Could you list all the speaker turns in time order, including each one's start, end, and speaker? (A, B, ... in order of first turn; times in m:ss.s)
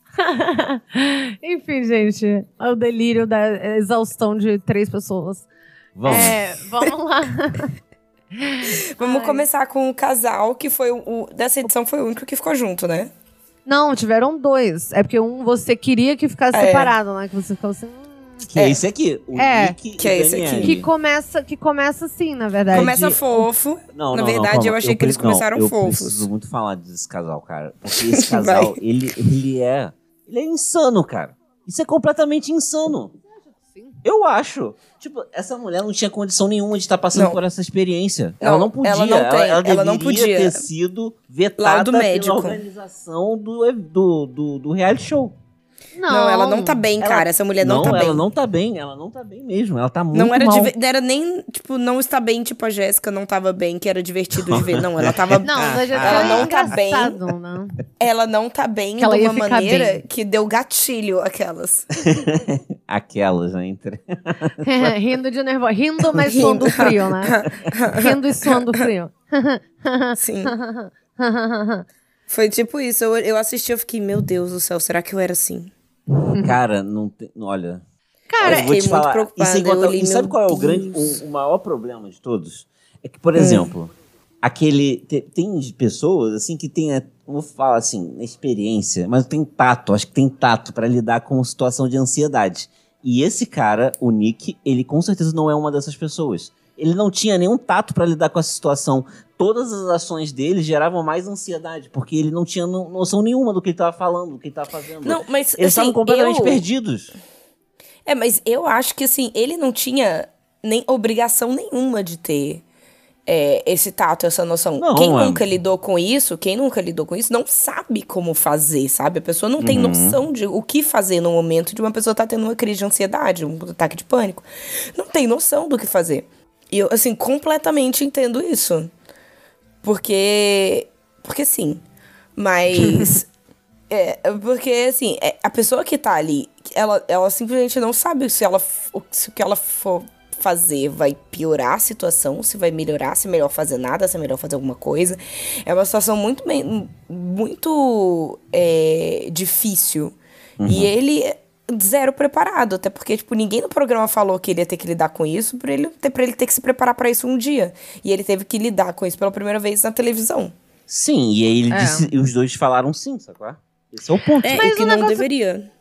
0:00.2-0:05.4 A
0:05.9-0:06.4 B
0:06.0-0:07.7 A
0:08.3-0:09.4 A
0:09.0-0:13.1 C
0:13.6-0:18.4 A
0:16.5-0:16.9 C
0:18.5-0:20.9 B
0:18.6-0:18.8 C
0:19.4-0:19.8 A
0:20.0-0:20.8 C
0:20.6-0:23.4 A
0:22.7-0:23.0 B
0:22.7-0:26.3 C
0:23.9-0:33.2 B
0:28.1-0:28.8 C
0:33.5-0:34.0 A
0:34.0-0:45.3 B
0:37.1-0:37.4 C
0:38.4-0:40.6 C
0:41.6-0:42.6 C
0:45.9-0:46.8 A
0:46.1-0:48.2 C
0:47.0-0:50.7 B
0:50.1-0:57.2 C
0:54.3-0:56.7 B
0:55.4-0:57.8 A
0:58.0-1:02.0 C
0:59.0-1:00.0 A
1:02.0-1:05.0 B
1:04.6-1:11.9 A
1:06.3-1:08.7 C
1:10.2-1:10.5 C
1:12.3-1:15.7 C
1:16.2-1:16.5 A
1:16.4-1:17.8 B
1:18.3-1:18.7 A
1:18.4-1:47.1 B
1:18.4-1:21.0 C
1:23.4-1:23.7 C
1:45.0-1:46.6 C
1:48.0-1:52.6 C
1:53.3-2:08.9 C
1:54.8-1:55.4 B
1:59.6-2:00.2 B
2:09.8-2:11.8 C
2:12.4-2:13.3 C
2:13.9-2:40.5 C
2:30.6-2:30.9 B
2:40.9-2:44.6 B
2:41.7-2:42.1 A
2:44.3-2:45.3 A
2:44.4-2:45.7 C